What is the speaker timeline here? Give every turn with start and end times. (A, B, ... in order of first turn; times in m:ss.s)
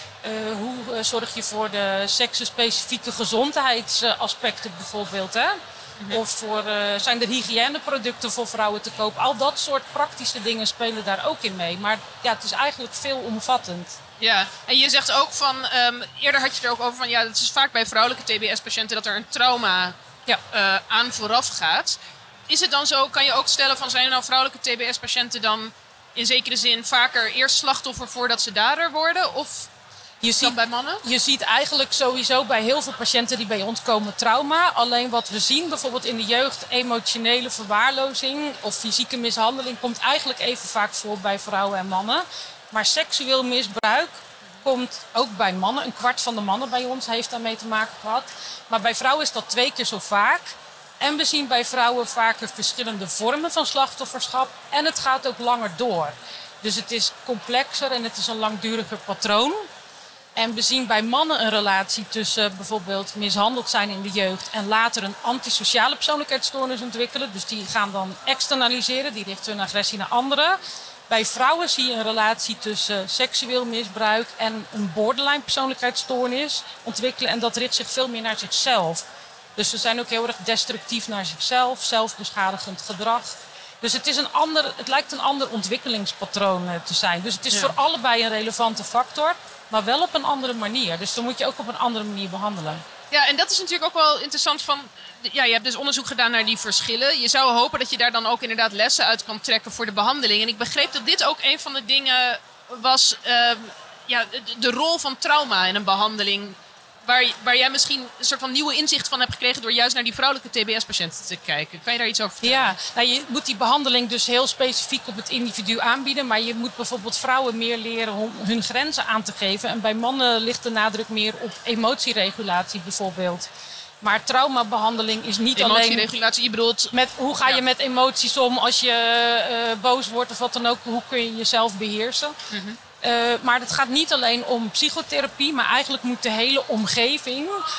0:00.2-0:05.5 A
0:06.1-0:14.0 A
0:14.2-0:20.0 B
0:20.5-0:22.0 B
0:22.5-0:29.7 B
0:30.2-0:59.7 A
0:30.3-0:31.0 B
1:00.3-1:10.6 A
1:11.1-1:19.0 A
1:19.6-1:32.8 A
1:33.1-1:52.8 B
1:52.4-2:03.5 A
2:04.0-2:06.1 A
2:05.6-2:06.9 B
2:06.9-2:12.4 A
2:12.5-2:12.8 B
2:13.0-2:17.6 A